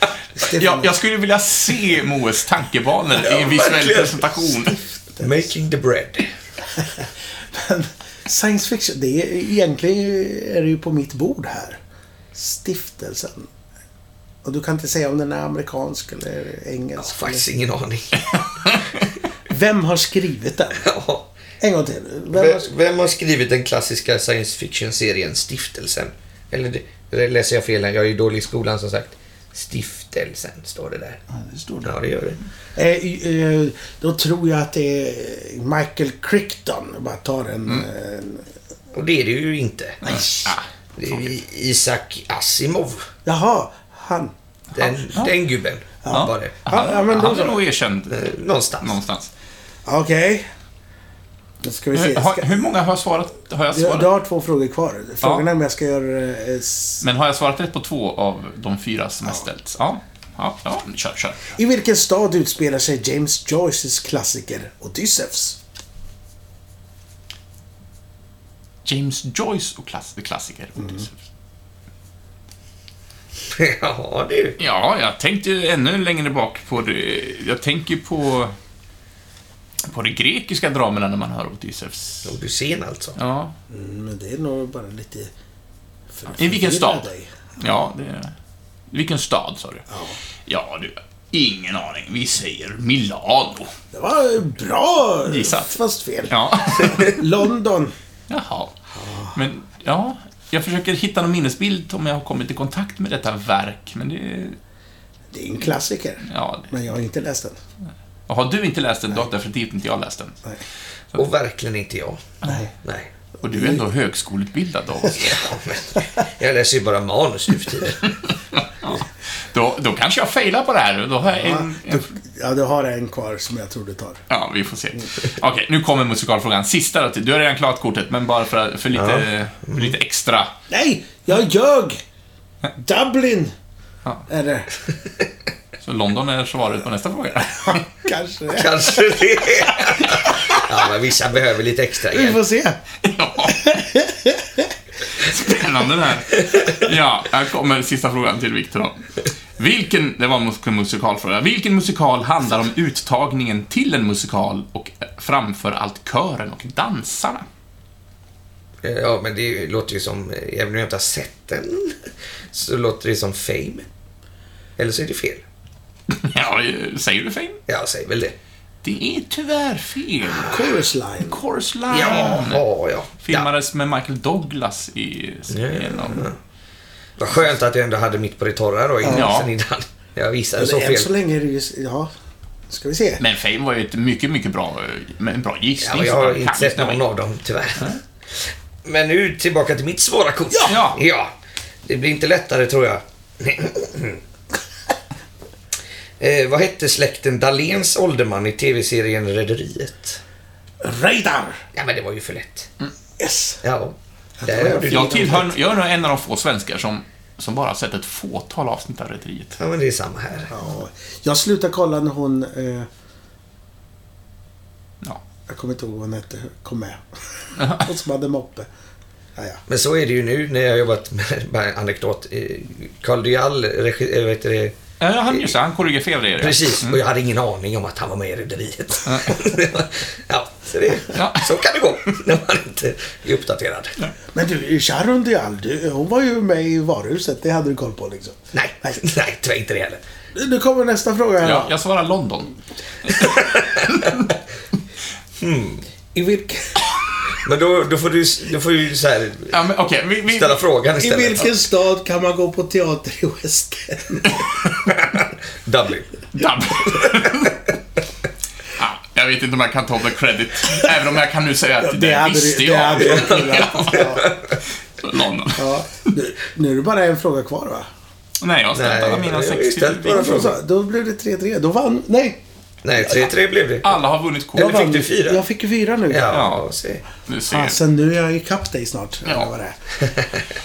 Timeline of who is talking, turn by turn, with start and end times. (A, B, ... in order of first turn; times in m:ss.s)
0:00.4-0:04.8 A
0:00.4-0:00.9 B
0:03.1-0:06.3 C
0:07.0-0:11.8 B
0:12.3-0:13.5 B
0:14.4-0:17.4 B
0:17.0-0:18.3 C
0:19.5-0:20.9 B
0:20.8-0:21.3 C
0:21.6-0:22.7 B
0:22.3-0:31.2 C
0:31.3-0:31.9 B
0:31.8-0:32.4 C
0:32.7-0:38.4 B
0:38.9-0:40.0 C
0:40.0-0:41.4 A
0:40.0-0:40.5 B
0:41.0-0:43.1 C
0:43.2-0:44.3 B
0:44.7-0:45.3 A
0:44.7-0:46.5 C
0:46.0-0:47.6 B
0:46.1-0:48.3 A
0:48.1-0:49.0 C
0:48.8-0:49.3 A
0:49.8-0:50.5 B
0:51.6-0:52.7 B
0:51.9-0:54.1 A
0:53.7-0:57.0 B
0:55.2-0:55.5 A
0:57.0-1:01.6 A
1:01.6-1:05.6 B
1:08.8-1:11.2 A
1:13.5-1:14.6 C
1:14.6-1:18.5 A
1:19.9-1:22.3 A
1:22.2-1:23.2 C
1:23.2-1:23.5 A
1:23.7-1:25.3 B
1:26.1-1:27.3 B
1:26.3-1:27.1 A
1:27.6-1:28.3 A
1:28.9-1:29.9 A
1:29.9-1:30.2 B
1:30.5-1:33.7 A
1:33.9-1:37.9 B
1:35.2-1:37.2 A
1:38.3-1:38.7 A
1:39.0-1:39.3 B
1:39.3-1:44.6 A
1:45.3-1:47.6 B
1:46.3-1:46.7 A
1:48.3-1:50.4 A
1:51.1-1:52.2 C
1:52.4-1:52.7 A
1:52.8-1:53.1 C
1:53.4-1:55.5 A
1:55.2-1:58.2 C
1:58.0-2:02.1 A
2:01.4-2:04.2 B
2:04.3-2:10.5 A
2:08.9-2:09.9 C
2:10.7-2:12.0 B
2:12.8-2:13.5 B
2:14.3-2:14.8 B
2:15.8-2:17.9 A
2:17.7-2:20.6 B
2:18.5-2:22.4 C
2:22.1-2:22.8 B
2:23.0-2:23.6 A
2:23.5-2:24.7 B
2:25.1-2:37.4 A
2:38.8-2:43.9 C
2:44.8-2:45.4 C
2:46.1-2:47.6 A
2:47.7-2:48.4 C
2:48.8-2:50.6 A
2:50.3-2:50.8 C
2:50.4-2:51.4 B
2:51.2-2:52.6 A
2:51.9-2:53.5 C
2:53.2-2:56.3 A
2:55.5-2:56.4 C
2:57.2-3:01.1 C
2:59.0-2:59.3 B
2:59.1-2:59.5 A
3:00.6-3:02.1 B
3:02.7-3:03.2 B
3:03.2-3:07.0 A
3:05.8-3:14.2 C
3:10.6-3:11.0 A
3:16.2-3:20.2 C
3:20.8-3:21.6 B
3:21.7-3:22.7 C
3:23.2-3:23.6 B
3:23.6-3:25.5 C
3:24.4-3:25.5 B
3:24.8-3:29.6 A
3:29.6-3:30.5 C
3:30.5-3:32.9 B
3:35.5-3:38.7 B
3:37.6-3:37.9 A
3:39.4-3:39.6 B
3:39.7-3:44.8 C
3:45.0-3:47.0 A
3:46.4-3:54.0 C
3:49.0-3:49.4 A
3:51.1-3:51.5 A
3:54.3-3:59.0 B
3:58.5-4:00.0 C
4:00.3-4:01.7 B
4:01.4-4:04.3 A
4:03.2-4:04.1 C
4:05.4-4:05.8 C
4:06.1-4:06.9 B
4:07.4-4:09.6 C
4:09.5-4:10.6 A
4:10.3-4:11.5 C
4:11.0-4:14.6 B
4:15.0-4:16.1 C
4:16.3-4:17.6 A
4:16.8-4:17.5 C
4:18.7-4:24.0 A
4:21.8-4:24.3 B
4:23.1-4:24.6 C
4:25.0-4:26.1 A
4:25.6-4:27.9 B
4:28.4-4:30.4 A
4:28.7-4:30.6 C
4:30.1-4:32.4 B
4:32.8-4:34.0 C
4:33.8-4:34.9 A
4:34.5-4:35.4 C
4:34.6-4:36.4 B
4:36.1-4:37.0 C
4:36.3-4:36.6 A
4:37.3-4:37.8 A
4:37.5-4:39.8 B
4:39.2-4:39.5 A
4:40.0-4:40.4 C